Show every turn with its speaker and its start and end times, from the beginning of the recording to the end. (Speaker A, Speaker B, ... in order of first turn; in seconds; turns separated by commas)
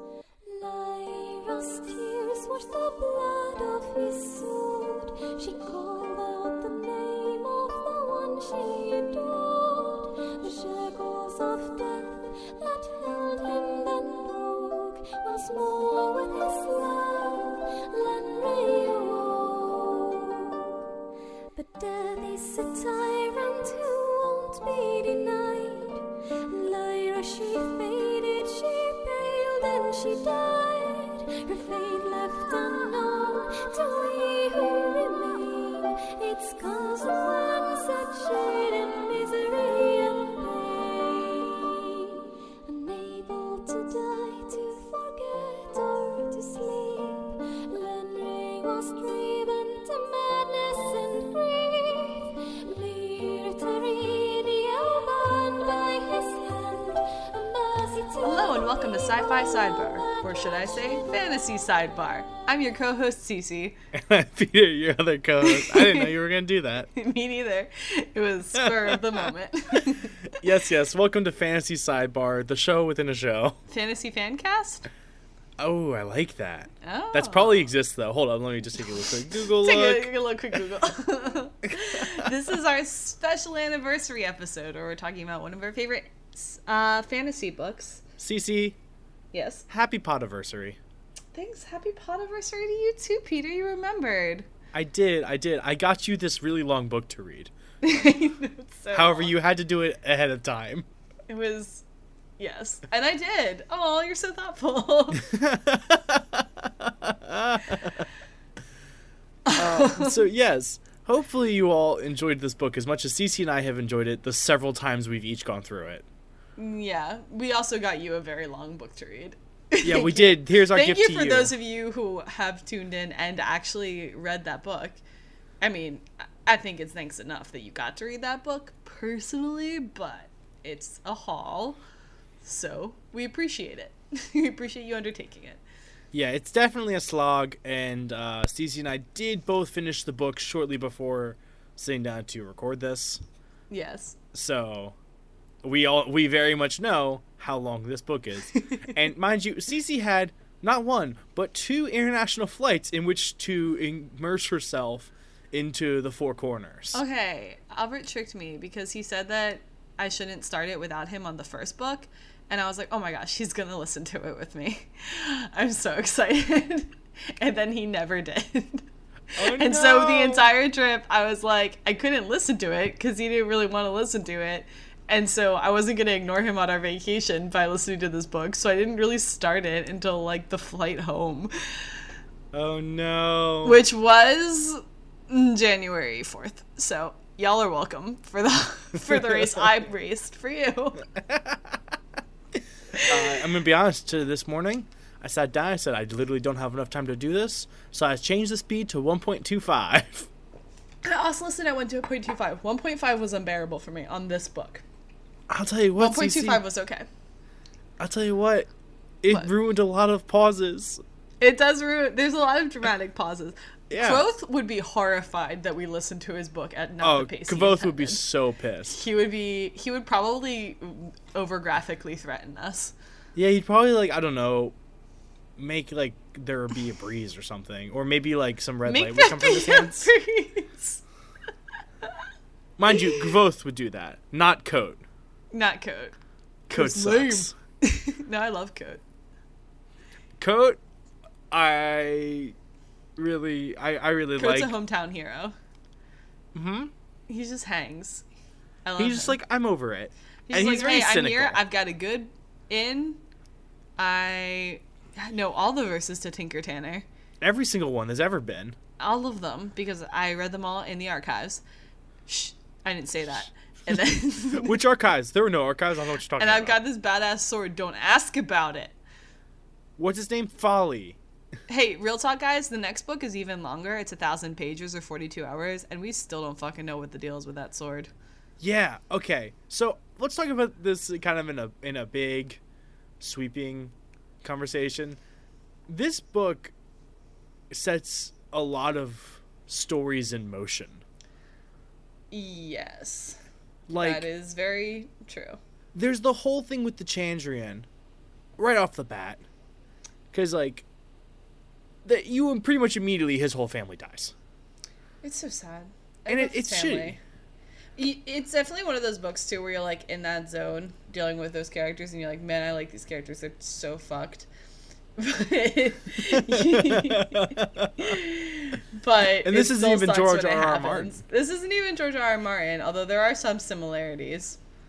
Speaker A: 0.5-20.8, Speaker A: 21.6-62.1, Speaker B: 58.2-63.8, Speaker C: 63.9-66.9, Speaker B: 65.4-66.1, Speaker B: 66.9-70.2, Speaker C: 68.6-69.3, Speaker C: 69.8-73.6, Speaker B: 73.7-74.9, Speaker C: 75.6-80.1, Speaker B: 76.8-77.7, Speaker B: 79.4-88.0, Speaker C: 82.0-82.3, Speaker C: 88.2-88.8, Speaker B: 89.3-89.7, Speaker C: 89.7-90.8, Speaker B: 91.3-94.5, Speaker C: 94.7-97.5, Speaker B: 97.8-99.3, Speaker C: 98.9-100.9, Speaker B: 101.3-101.8, Speaker B: 102.4-105.3, Speaker C: 105.1-108.1, Speaker B: 109.5-110.2, Speaker C: 109.6-116.0, Speaker B: 116.6-125.0, Speaker C: 119.8-121.5, Speaker B: 125.6-131.8, Speaker B: 132.4-135.6, Speaker C: 136.1-143.2, Speaker B: 143.7-144.2, Speaker C: 144.3-145.0, Speaker C: 145.6-157.0, Speaker B: 148.6-148.9, Speaker B: 156.9-168.9, Speaker C: 169.4-170.5, Speaker B: 169.4-181.5, Speaker C: 182.5-183.8, Speaker B: 183.6-191.1, Speaker C: 189.1-189.6, Speaker C: 191.2-191.8, Speaker B: 192.9-193.3, Speaker C: 193.0-200.3, Speaker B: 201.0-204.8, Speaker C: 205.5-206.6, Speaker B: 206.0-207.1, Speaker C: 208.0-208.7, Speaker C: 209.2-211.0, Speaker B: 211.4-218.2, Speaker C: 213.9-214.2, Speaker C: 217.0-219.0, Speaker B: 218.9-222.9, Speaker C: 223.3-224.8, Speaker C: 225.6-230.1, Speaker B: 228.9-231.0, Speaker C: 232.8-235.0, Speaker B: 232.9-233.3, Speaker B: 235.5-236.2, Speaker C: 236.7-237.5, Speaker B: 236.7-239.0, Speaker C: 240.4-240.8, Speaker C: 241.5-242.6, Speaker C: 243.2-244.7, Speaker B: 244.4-245.6, Speaker C: 246.5-246.9, Speaker B: 247.3-248.2, Speaker B: 248.8-249.4, Speaker C: 249.0-251.6, Speaker B: 250.5-253.2, Speaker B: 254.0-257.1, Speaker C: 257.4-258.8, Speaker B: 259.0-261.6, Speaker B: 262.3-264.8, Speaker C: 263.3-266.8, Speaker B: 266.4-269.0, Speaker C: 270.0-271.2, Speaker B: 271.7-278.1, Speaker C: 278.6-282.6, Speaker C: 283.2-285.2, Speaker C: 285.9-286.7, Speaker C: 287.7-291.0, Speaker B: 292.3-293.4, Speaker C: 293.9-294.3, Speaker B: 294.0-295.6, Speaker C: 295.9-297.9, Speaker C: 298.6-299.4, Speaker C: 300.3-300.9, Speaker C: 302.1-304.3, Speaker B: 305.2-307.2, Speaker C: 306.3-307.2, Speaker B: 308.0-314.5, Speaker B: 315.2-324.6, Speaker C: 316.2-318.2, Speaker C: 319.4-321.2